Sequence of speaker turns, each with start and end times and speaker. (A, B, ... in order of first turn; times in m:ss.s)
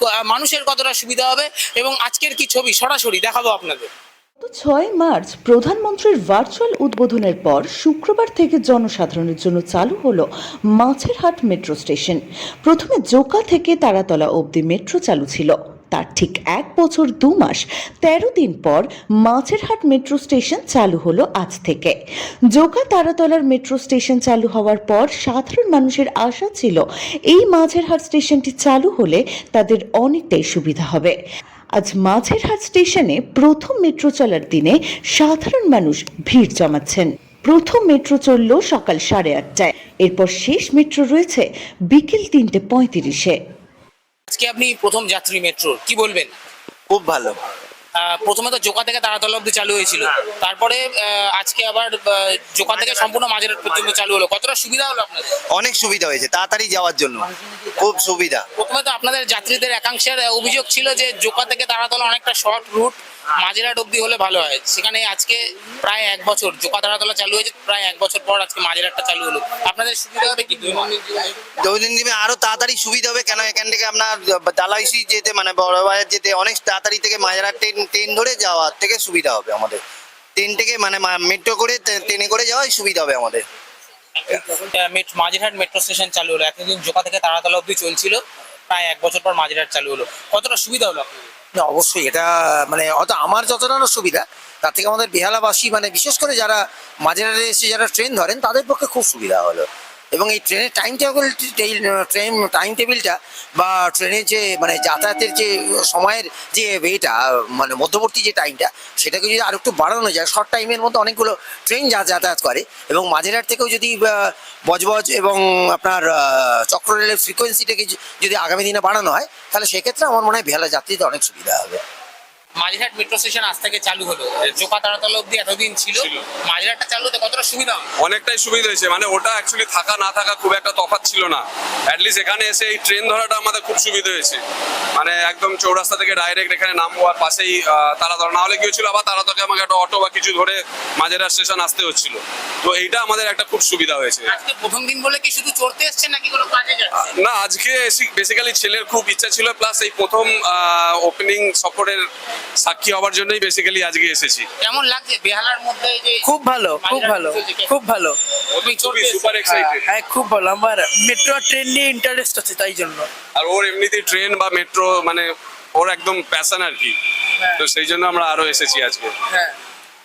0:00.2-0:03.9 A
0:04.4-0:22.0 B
0:22.5-0:31.2 B
0:31.8-0:43.4 B
0:44.3-0:46.3 A
0:46.9-0:47.4 C
0:48.0-0:55.4 A
0:55.5-0:58.4 C
0:58.6-1:11.3 A
1:11.6-1:19.8 C
1:20.4-1:23.4 C
1:24.2-1:31.3 A
1:31.6-2:01.8 D
2:02.6-2:07.9 A
2:05.9-2:06.2 E
2:08.0-2:14.4 E
2:15.0-2:24.3 E
2:24.3-2:27.0 A
2:27.0-2:32.0 E
2:32.6-2:34.5 E
2:34.6-2:37.7 A
2:36.2-2:38.2 F
2:38.5-2:39.9 E
2:38.6-2:39.4 A
2:39.4-2:43.1 F
2:43.4-2:47.0 E
2:47.6-2:49.1 E